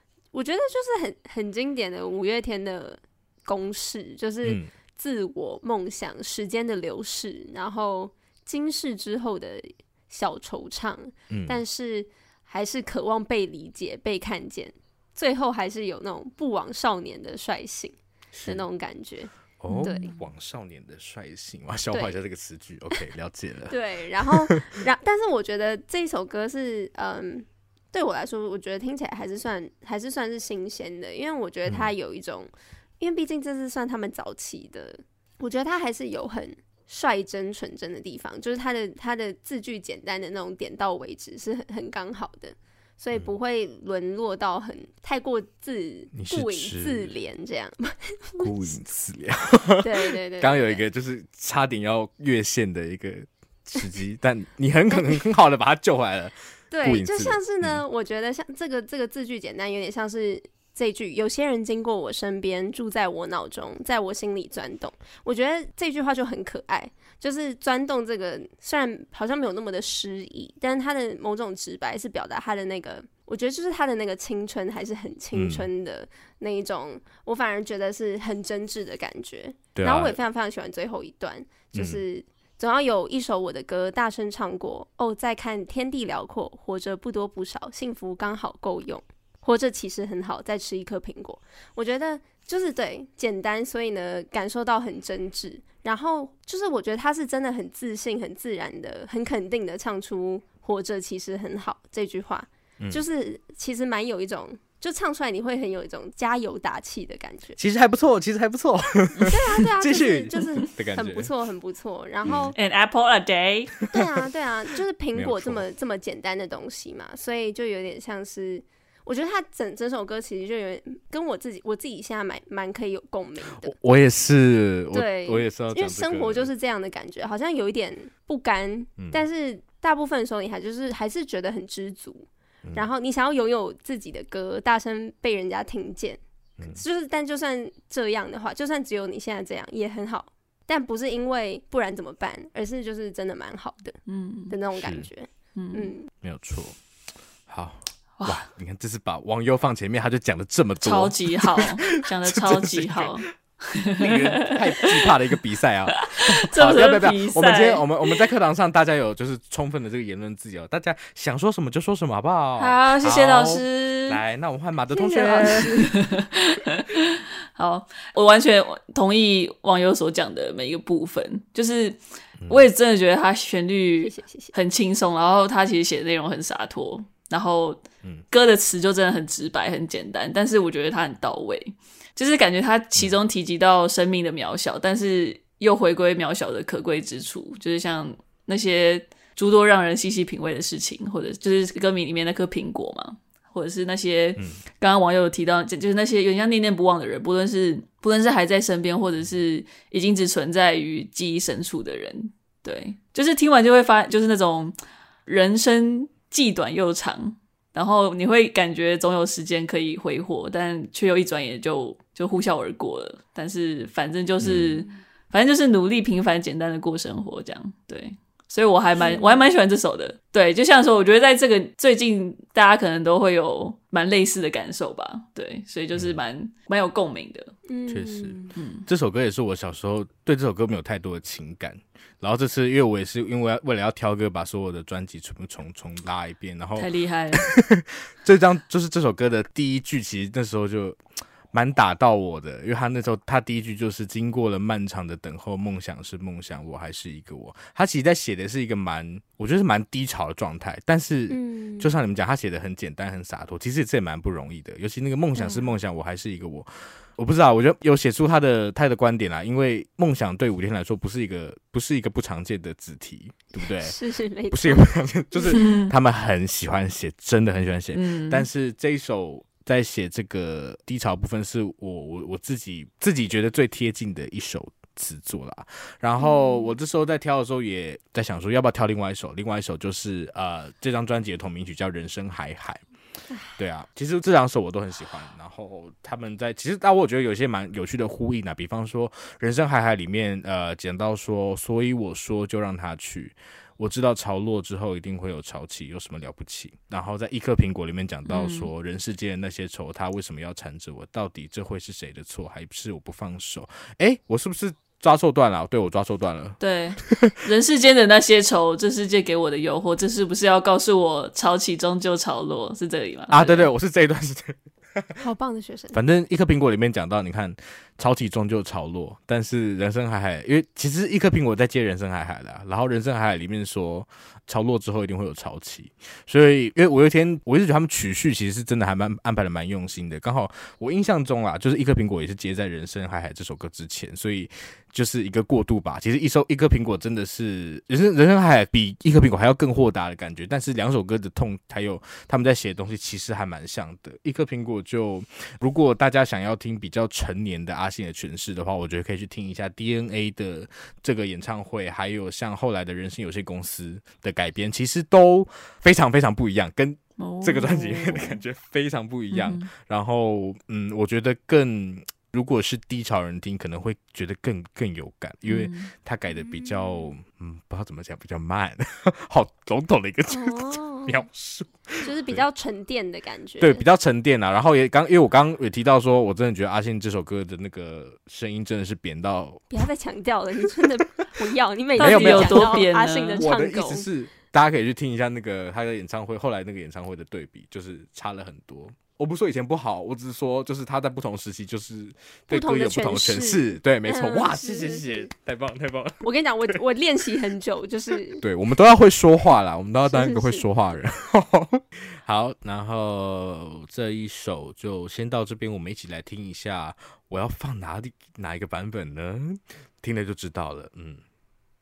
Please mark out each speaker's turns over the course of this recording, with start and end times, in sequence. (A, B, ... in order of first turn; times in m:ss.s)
0:00.3-0:19.3 A
0:04.4-0:04.7 B
0:11.3-0:11.6 B
0:18.3-0:18.6 B
0:19.6-0:24.8 B
0:19.7-0:20.2 C
0:19.8-0:20.1 A
0:23.7-0:48.7 A
0:46.1-0:47.1 B
0:48.4-0:57.8 B
0:49.8-0:50.8 A
0:54.9-0:55.2 A
0:56.7-1:47.6 A
1:15.3-1:15.7 B
1:19.8-1:20.2 B
1:21.7-1:22.0 B
1:47.6-1:51.3 B
1:49.2-1:52.6 A
1:52.2-1:52.5 B
1:52.6-1:53.9 C
1:53.9-2:03.8 A
1:55.2-1:55.6 B
2:03.5-2:06.5 B
2:04.9-2:24.0 A
2:09.0-2:09.2 B
2:24.1-2:24.6 C
2:24.5-2:26.1 A
2:24.8-2:25.1 B
2:25.6-2:25.9 C
2:26.2-2:26.8 B
2:27.5-2:33.3 B
2:28.2-2:28.4 C
2:30.8-2:35.2 C
2:33.9-2:45.7 B
2:36.0-2:38.2 C
2:42.6-2:44.2 C
2:44.9-2:45.9 A
2:45.2-3:24.8 C
2:52.4-2:52.7 B
2:54.0-2:54.5 A
3:25.3-3:47.5 C
3:34.4-3:34.8 B
3:39.0-3:39.4 A
3:47.7-3:48.5 A
3:47.9-4:01.0 B
3:48.6-3:48.9 C
3:56.8-3:57.5 C
4:01.5-4:24.0 B
4:11.3-4:11.9 A
4:15.4-4:15.7 A
4:23.6-4:24.9 A
4:24.5-4:42.8 B
4:25.5-4:25.9 C
4:28.0-4:28.5 C
4:36.2-4:36.7 A
4:43.6-5:07.3 B
4:58.3-4:58.7 C
5:06.6-5:13.7 C
5:13.3-5:15.2 B
5:15.2-5:16.0 A
5:15.9-6:12.4 B
5:57.2-5:58.4 C
5:59.3-5:59.7 C
6:05.4-6:05.9 C
6:06.4-6:07.1 A
6:10.3-6:11.2 A
6:12.0-6:13.8 A
6:13.6-6:19.8 B
6:19.7-6:24.1 A
6:22.0-6:23.4 C
6:22.0-6:36.8 B
6:32.5-6:35.3 A
6:36.2-6:38.4 A
6:38.4-6:51.2 B
6:40.0-6:40.7 A